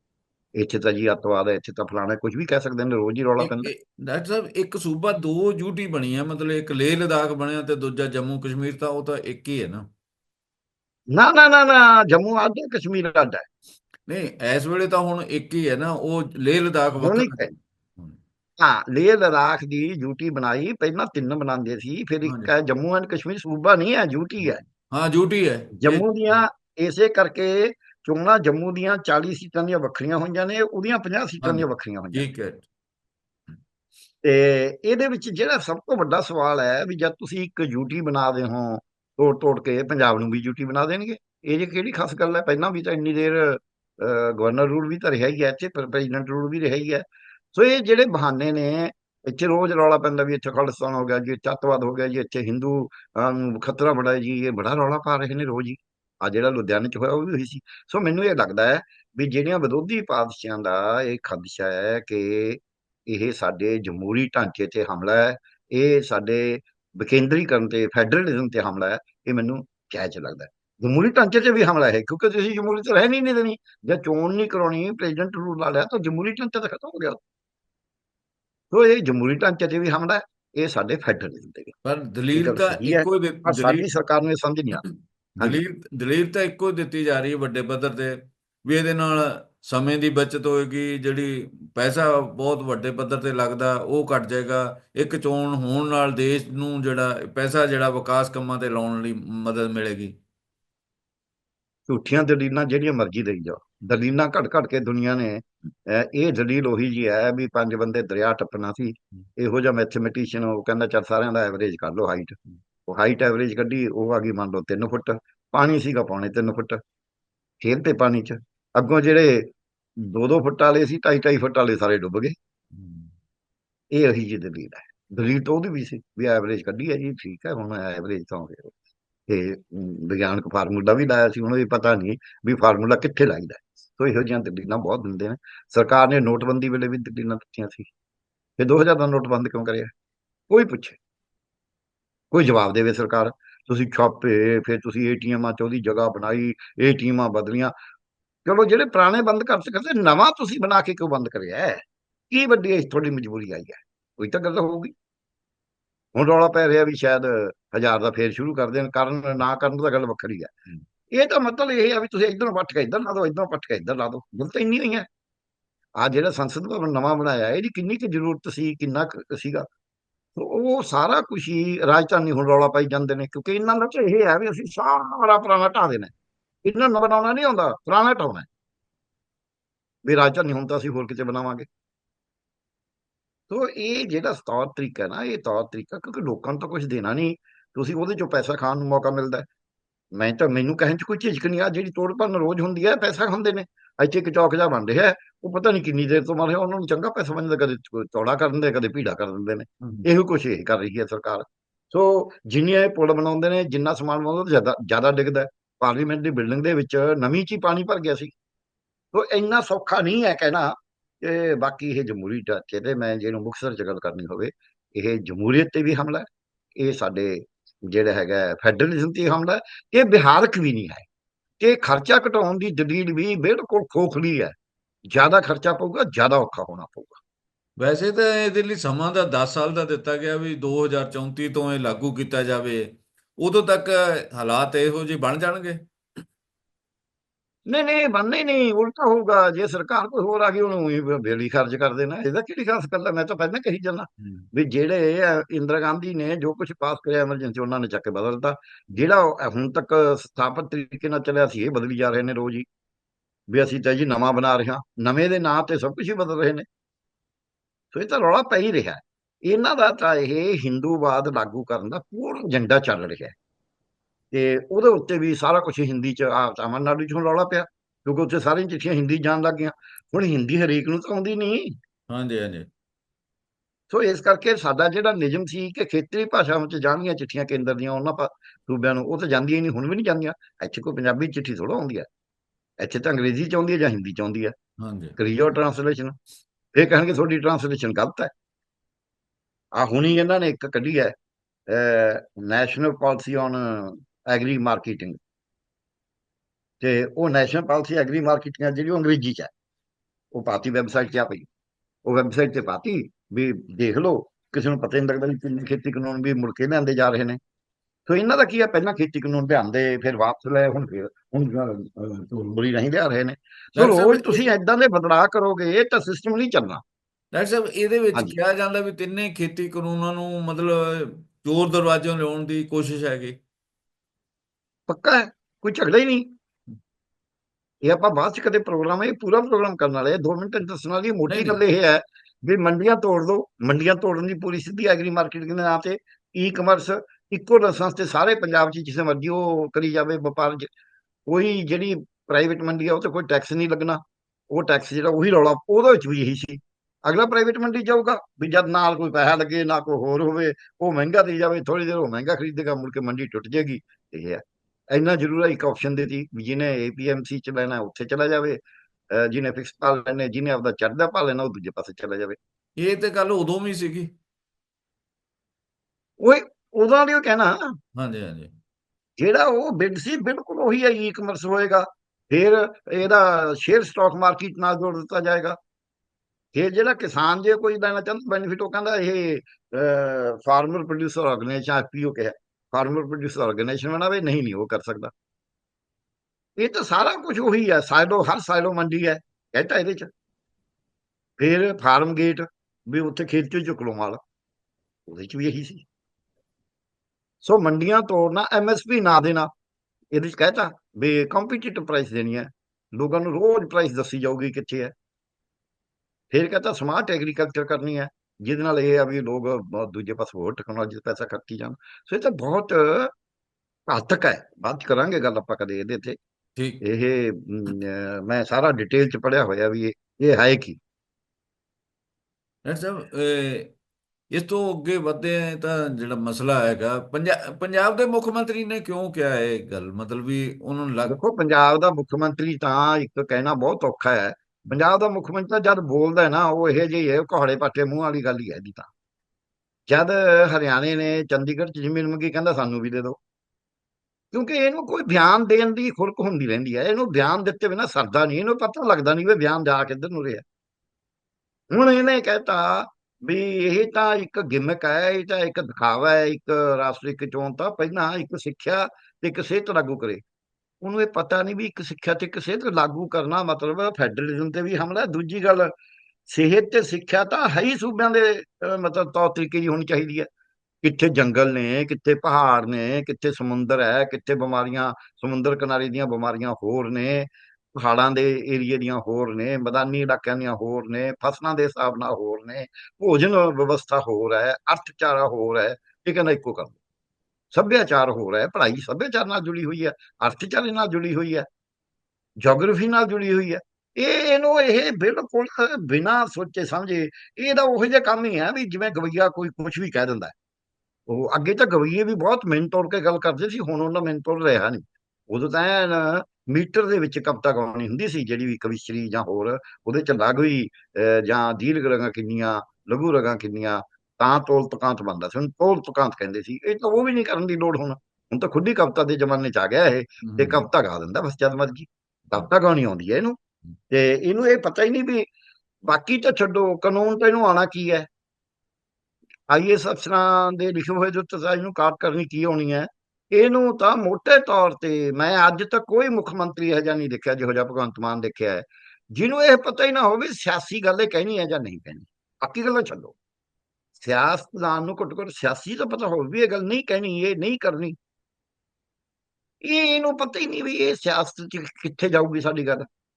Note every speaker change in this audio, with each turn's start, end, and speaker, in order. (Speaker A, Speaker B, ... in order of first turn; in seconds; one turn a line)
Speaker A: 0.6-3.7
Speaker B: 3.4-9.9
Speaker A: 11.1-13.5
Speaker B: 14.1-17.5
Speaker A: 17.0-17.5
Speaker A: 18.6-24.6
Speaker B: 22.2-22.5
Speaker B: 24.4-26.4
Speaker A: 25.7-32.2
Speaker B: 31.4-32.6
Speaker A: 34.2-77.2
Speaker A: 78.7-81.8
Speaker B: 81.8-83.9
Speaker A: 82.3-84.8
Speaker B: 84.8-100.2
Speaker A: 101.9-116.8
Speaker A: 117.6-122.4
Speaker B: 122.7-123.1
Speaker A: 123.9-128.8
Speaker A: 129.3-137.9
Speaker A: 138.6-139.9
Speaker A: 140.5-141.0
Speaker A: 142.3-147.7
Speaker A: 148.4-154.9
Speaker A: 156.2-165.1
Speaker A: 166.0-169.7
Speaker A: 170.4-176.1
Speaker A: 176.7-178.5
Speaker A: 180.1-181.7
Speaker A: 183.5-189.5
Speaker A: 190.1-208.3
Speaker A: 209.1-221.1
Speaker A: 221.6-224.6
Speaker A: 225.1-227.2
Speaker B: 227.8-235.8
Speaker A: 237.7-252.7
Speaker A: 253.5-256.7
Speaker A: 257.9-263.4
Speaker A: 264.3-271.8
Speaker B: 272.1-272.7
Speaker A: 273.9-282.1
Speaker A: 282.8-284.6
Speaker B: 284.8-285.2
Speaker A: 285.2-286.2
Speaker A: 286.7-288.3
Speaker A: 289.8-291.1
Speaker A: 291.7-295.2
Speaker A: 296.8-299.5
Speaker A: 300.3-301.5
Speaker A: 302.1-307.4
Speaker A: 308.1-316.8
Speaker B: 313.8-314.4
Speaker B: 317.3-323.4
Speaker A: 324.9-326.3
Speaker A: 327.8-340.7
Speaker B: 331.3-331.6
Speaker A: 341.3-358.6
Speaker A: 359.1-362.4
Speaker B: 362.8-364.1
Speaker A: 366.2-367.8
Speaker B: 368.0-368.5
Speaker A: 369.2-375.6
Speaker A: 376.5-385.1
Speaker A: 386.6-390.1
Speaker A: 391.4-394.2
Speaker A: 395.1-395.9
Speaker A: 397.4-399.5
Speaker A: 400.1-404.9
Speaker A: 406.3-413.1
Speaker A: 413.9-416.2
Speaker B: 416.6-416.8
Speaker A: 416.8-420.8
Speaker B: 422.6-423.7
Speaker B: 424.3-431.2
Speaker A: 431.1-438.9
Speaker A: 439.9-443.2
Speaker A: 444.3-450.4
Speaker A: 451.7-460.2
Speaker A: 460.8-465.7
Speaker A: 466.3-470.3
Speaker A: 470.8-486.8
Speaker A: 487.5-491.5
Speaker A: 492.4-500.4
Speaker A: 501.1-523.4
Speaker B: 520.2-520.6
Speaker A: 523.9-525.3
Speaker A: 525.9-528.1
Speaker A: 529.5-543.2
Speaker A: 544.0-548.0
Speaker A: 549.6-552.9